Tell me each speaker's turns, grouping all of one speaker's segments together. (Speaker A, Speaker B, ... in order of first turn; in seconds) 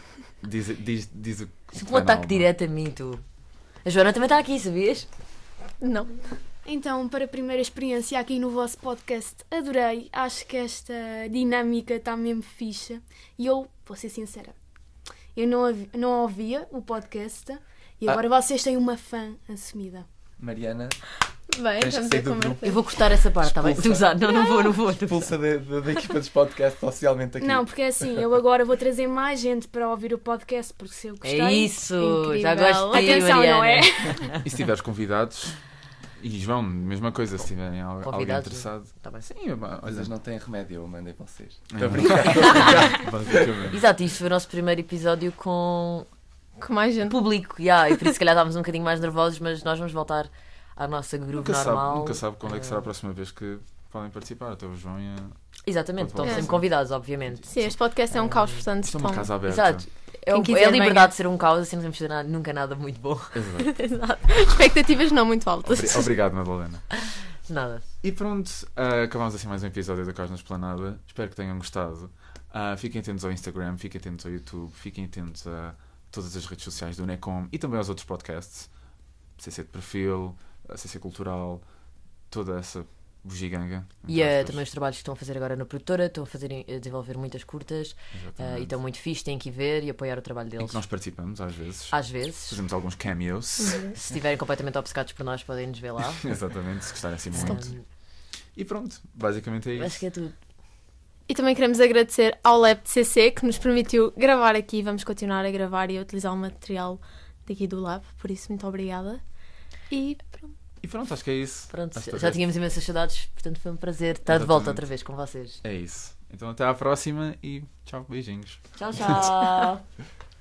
Speaker A: 0.4-2.5, 34.4-35.6, 36.2-40.1, 41.7-43.8, 51.3-55.4, 56.0-57.8, 58.9-59.8, 63.3-63.8, 65.6-66.8, 68.0-78.7, 79.4-81.6, 82.3-84.6, 88.1-88.7, 90.6-94.0, 96.2-97.7, 98.5-100.0, 110.8-112.4, 114.3-114.8, 115.6-119.2
Speaker B: 1.7-3.2, 3.8-5.1, 22.6-25.3, 31.2-34.4, 38.0-39.3, 42.2-42.7, 43.7-46.1, 47.0-52.9, 55.6-58.7, 59.5-63.4, 67.4-67.8, 84.1-90.8, 91.9-92.6, 93.9-96.3, 97.3-97.8, 99.8-100.3, 111.7-115.6, 118.8-119.8
Speaker C: 5.8-6.1, 21.5-22.7, 32.0-33.2, 46.6-47.2, 56.2-56.5, 57.5-59.3, 60.3-61.1, 63.6-66.1, 93.6-93.9, 101.3-109.2, 109.9-110.5
Speaker D: 6.6-14.6, 15.3-20.1, 27.4-34.2
Speaker E: 20.4-21.1, 21.8-28.3, 39.9-43.5